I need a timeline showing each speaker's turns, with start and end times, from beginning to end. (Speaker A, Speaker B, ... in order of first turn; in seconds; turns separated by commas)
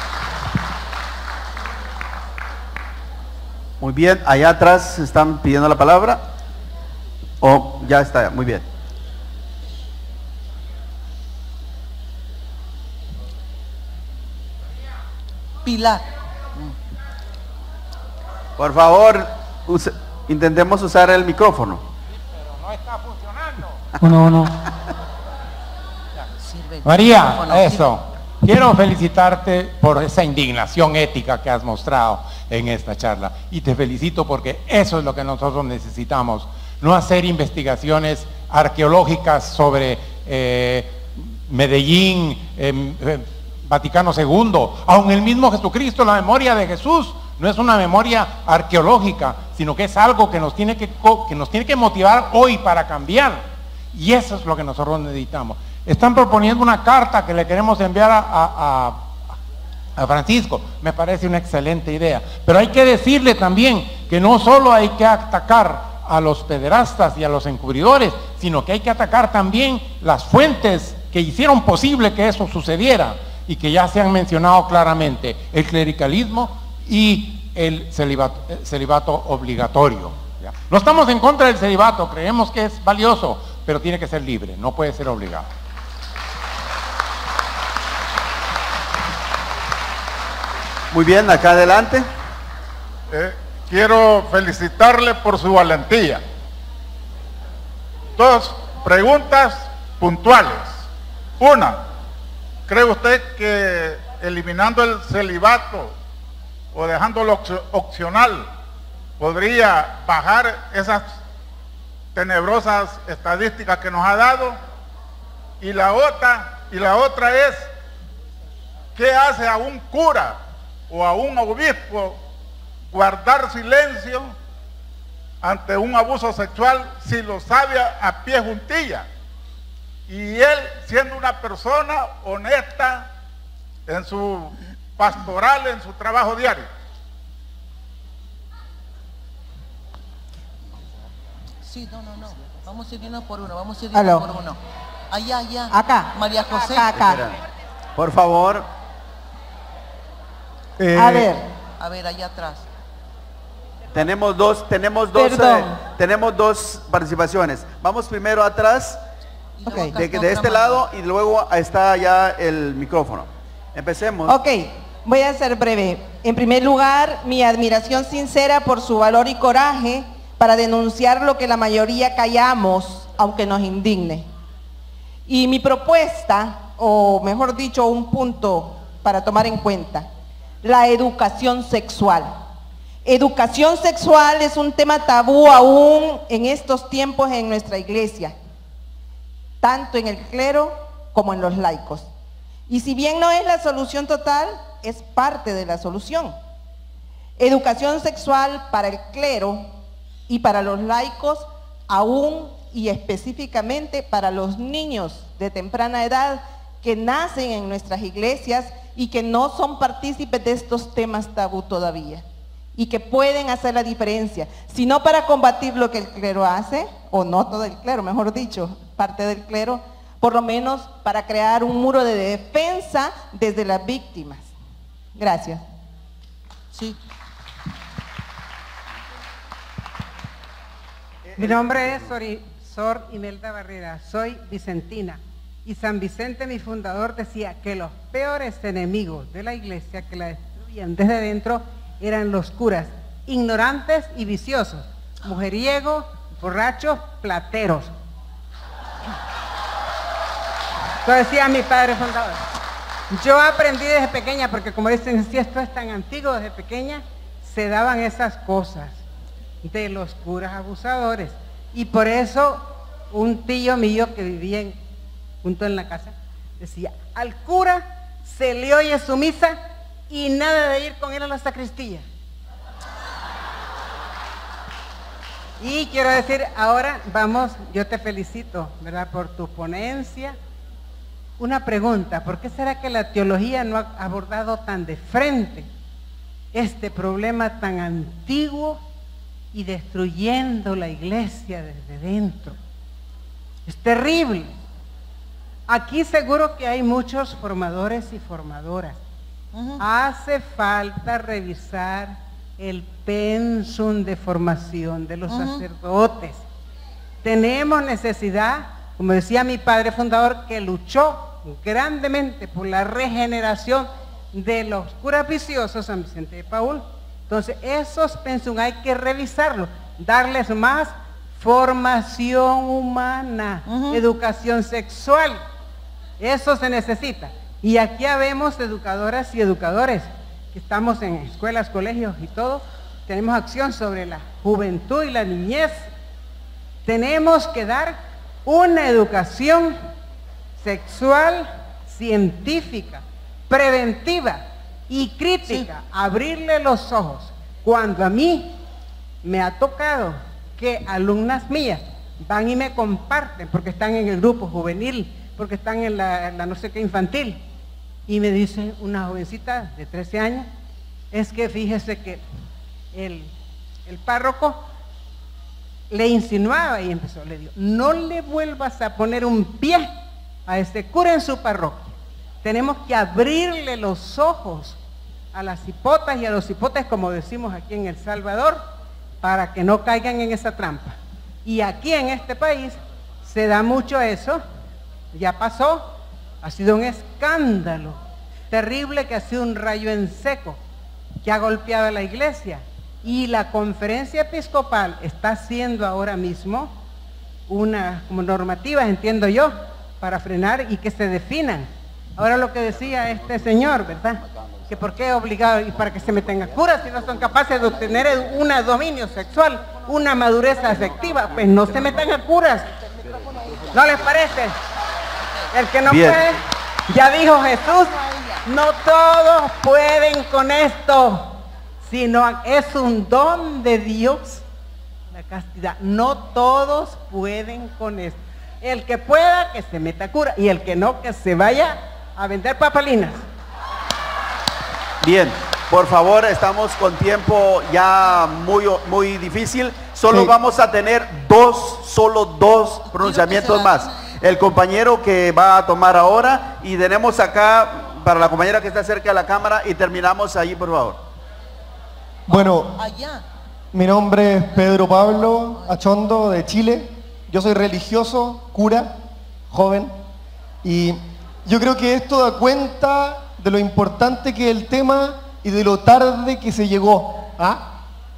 Speaker A: 3.8-6.2, Speaker A: 7.4-8.6, Speaker B: 15.6-16.7, Speaker A: 18.6-21.8, Speaker C: 22.4-24.6, Speaker B: 26.4-27.9, Speaker C: 26.8-59.0, Speaker C: 60.0-85.5, Speaker A: 90.9-92.1, Speaker D: 93.1-96.2, Speaker D: 98.2-100.8, Speaker D: 101.4-101.8, Speaker D: 102.7-105.9, Speaker D: 106.7-108.5, Speaker D: 109.2-111.1, Speaker D: 112.1-114.6, Speaker D: 115.6-117.7, Speaker D: 118.9-122.2, Speaker D: 122.9-124.3, Speaker D: 125.4-129.1, Speaker D: 130.1-133.1, Speaker D: 133.9-136.7, Speaker B: 141.6-144.6, Speaker E: 143.9-144.3, Speaker B: 145.1-146.9, Speaker E: 145.7-147.2, Speaker A: 146.9-147.4, Speaker A: 147.9-148.7, Speaker E: 150.8-151.5, Speaker B: 151.8-152.6, Speaker A: 153.9-159.0, Speaker E: 155.1-155.8, Speaker B: 159.6-160.8, Speaker E: 159.7-159.9, Speaker A: 159.9-164.4, Speaker E: 164.2-174.3, Speaker E: 175.3-180.1, Speaker E: 180.6-182.4, Speaker E: 183.0-188.3, Speaker E: 189.6-192.1, Speaker E: 192.7-196.4, Speaker E: 197.4-199.7, Speaker E: 200.3-224.5, Speaker E: 225.1-225.6, Speaker B: 226.7-227.0, Speaker A: 231.2-232.1, Speaker F: 231.4-247.9, Speaker F: 251.0-252.4, Speaker F: 253.1-259.0, Speaker F: 259.6-264.8, Speaker F: 265.4-272.0, Speaker F: 275.6-280.4, Speaker F: 281.4-285.7, Speaker F: 286.5-288.8, Speaker F: 289.5-292.6, Speaker F: 293.6-294.5, Speaker F: 295.7-299.0, Speaker B: 299.5-299.8, Speaker F: 299.8-306.4, Speaker B: 305.3-305.6, Speaker F: 307.2-325.4, Speaker B: 323.7-324.0, Speaker F: 326.2-335.9, Speaker F: 336.8-339.8, Speaker F: 340.6-348.6, Speaker F: 349.2-357.4, Speaker F: 358.1-360.5, Speaker F: 361.1-362.2, Speaker F: 362.9-363.3, Speaker F: 363.9-364.6, Speaker F: 365.9-369.9, Speaker F: 370.4-371.9, Speaker F: 372.4-374.8, Speaker F: 375.3-378.7, Speaker F: 379.2-384.4, Speaker F: 385.1-385.9, Speaker F: 386.4-388.0, Speaker F: 388.5-390.6, Speaker F: 391.2-396.7, Speaker F: 397.5-412.7, Speaker B: 412.8-413.8, Speaker F: 413.7-414.6, Speaker F: 415.5-424.4, Speaker A: 415.9-416.3, Speaker B: 417.5-418.4, Speaker F: 425.1-433.2, Speaker A: 435.0-451.0, Speaker B: 442.9-444.1, Speaker G: 452.3-452.8, Speaker B: 452.3-453.2, Speaker G: 453.7-459.0, Speaker G: 459.5-459.9, Speaker G: 460.6-467.8